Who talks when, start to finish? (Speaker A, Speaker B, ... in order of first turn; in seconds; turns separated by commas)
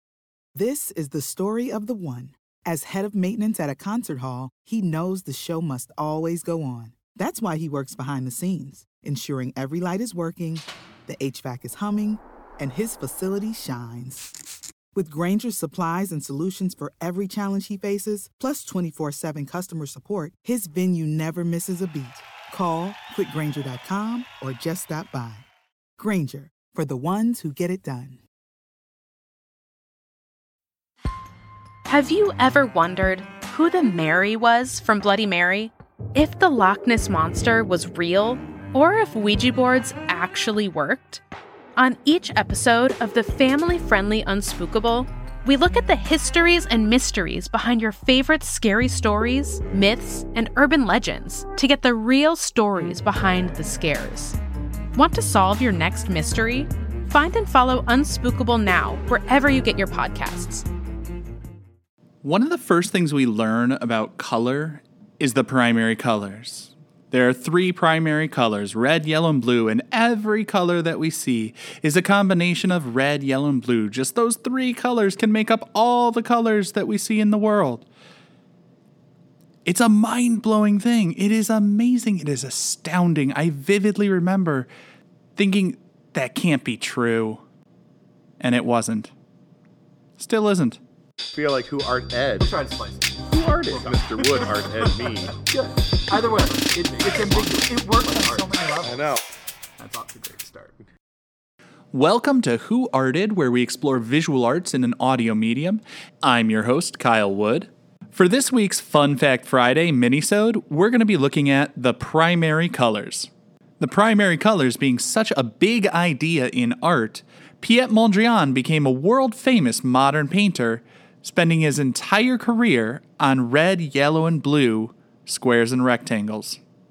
Speaker A: 0.5-14.3, Speaker A: 14.9-25.5, Speaker A: 26.0-28.2, Speaker B: 31.9-41.2, Speaker B: 41.8-54.4, Speaker B: 54.9-60.7, Speaker C: 62.2-77.9, Speaker C: 79.7-84.7, Speaker C: 85.3-87.4, Speaker C: 88.4-89.1, Speaker C: 90.2-90.8, Speaker D: 91.3-92.6, Speaker E: 92.4-93.2, Speaker D: 93.3-95.4, Speaker E: 96.1-98.7, Speaker A: 98.5-99.0, Speaker D: 98.8-99.2, Speaker E: 99.8-100.6, Speaker C: 101.9-126.6